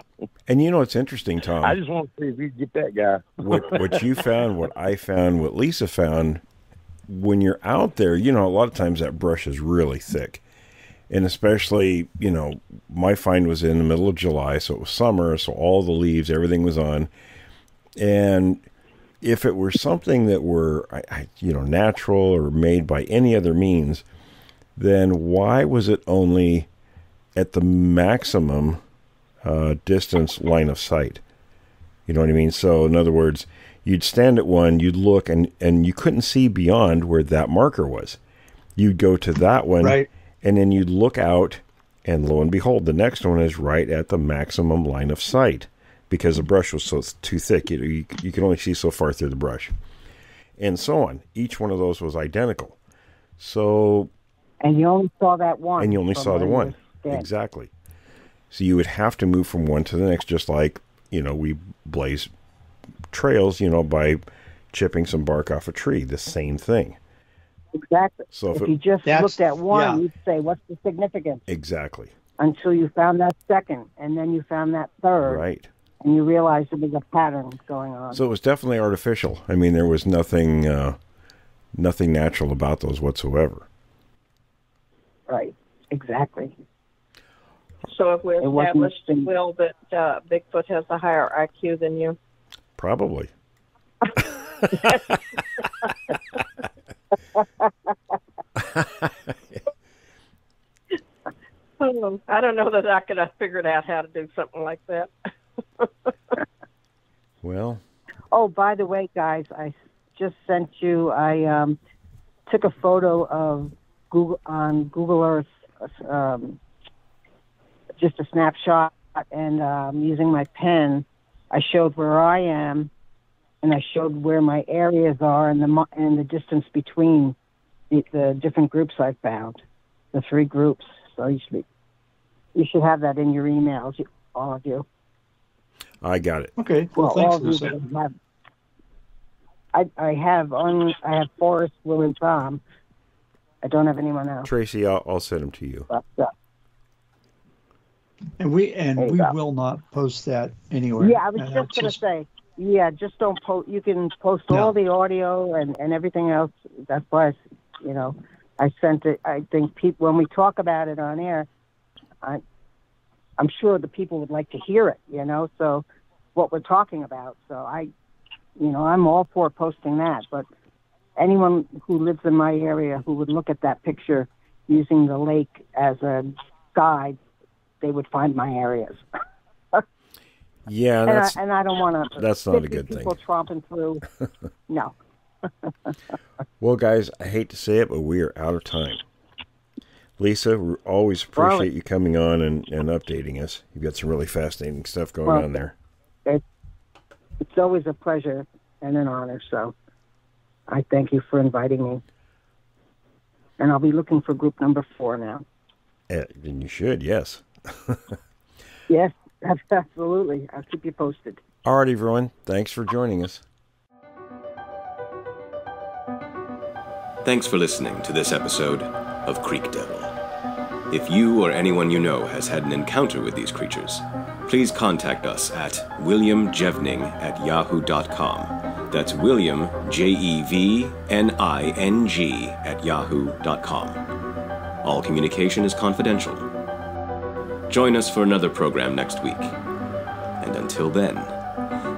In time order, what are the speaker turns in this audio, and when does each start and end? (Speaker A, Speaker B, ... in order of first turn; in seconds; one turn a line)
Speaker A: 0.5-1.8
Speaker B: 1.6-4.3
Speaker A: 3.5-6.4
Speaker A: 7.1-10.4
Speaker A: 11.1-17.1
Speaker A: 18.0-18.6
Speaker A: 19.2-24.1
Speaker A: 24.8-26.7
Speaker A: 27.4-28.8
Speaker A: 29.4-31.2
Speaker A: 32.1-38.2
Speaker A: 38.8-49.7
Speaker C: 39.8-40.1
Speaker A: 50.6-52.8
Speaker A: 53.4-54.1
Speaker D: 54.6-57.3
Speaker A: 55.8-57.7
Speaker A: 58.5-62.3
Speaker A: 63.1-67.0
Speaker D: 67.8-71.4
Speaker A: 68.3-68.7
Speaker C: 69.0-70.0
Speaker A: 71.5-72.1
Speaker D: 72.4-75.4
Speaker A: 75.2-75.7
Speaker D: 76.0-78.2
Speaker A: 78.1-81.0
Speaker A: 81.8-83.7
Speaker D: 85.3-86.5
Speaker E: 87.9-92.2
Speaker D: 88.4-89.3
Speaker A: 92.8-93.3
Speaker A: 94.2-95.2
Speaker A: 98.6-99.6
Speaker E: 101.8-105.1
Speaker E: 105.8-106.4
Speaker A: 107.4-107.8
Speaker D: 108.3-111.8
Speaker D: 112.5-116.6
Speaker D: 118.0-122.9
Speaker D: 123.6-127.3
Speaker D: 127.9-129.6
Speaker D: 130.1-131.7
Speaker D: 132.6-134.9
Speaker A: 136.0-136.5
Speaker C: 136.6-137.8
Speaker D: 137.0-138.1
Speaker D: 139.7-142.6
Speaker D: 143.6-144.5
Speaker A: 144.4-145.9
Speaker D: 145.9-146.3
Speaker C: 148.4-152.0
Speaker D: 149.0-149.3
Speaker D: 151.0-161.5
Speaker C: 154.5-154.8
Speaker D: 163.4-165.8
Speaker D: 166.3-167.9
Speaker D: 168.6-170.5
Speaker D: 171.2-177.2
Speaker D: 177.8-179.0
Speaker A: 180.7-181.4
Speaker D: 181.1-184.0
Speaker A: 182.2-183.2
Speaker D: 184.7-184.9
Speaker D: 185.6-186.0
Speaker A: 186.6-189.0
Speaker A: 190.2-195.7
Speaker D: 191.3-191.7
Speaker D: 197.4-199.7
Speaker D: 200.7-202.0
Speaker D: 203.6-205.4
Speaker A: 206.1-208.2
Speaker D: 208.9-211.4
Speaker A: 211.7-213.4
Speaker F: 217.2-220.1
Speaker F: 220.9-234.0
Speaker F: 234.8-236.5
Speaker F: 237.7-239.6
Speaker F: 240.4-241.3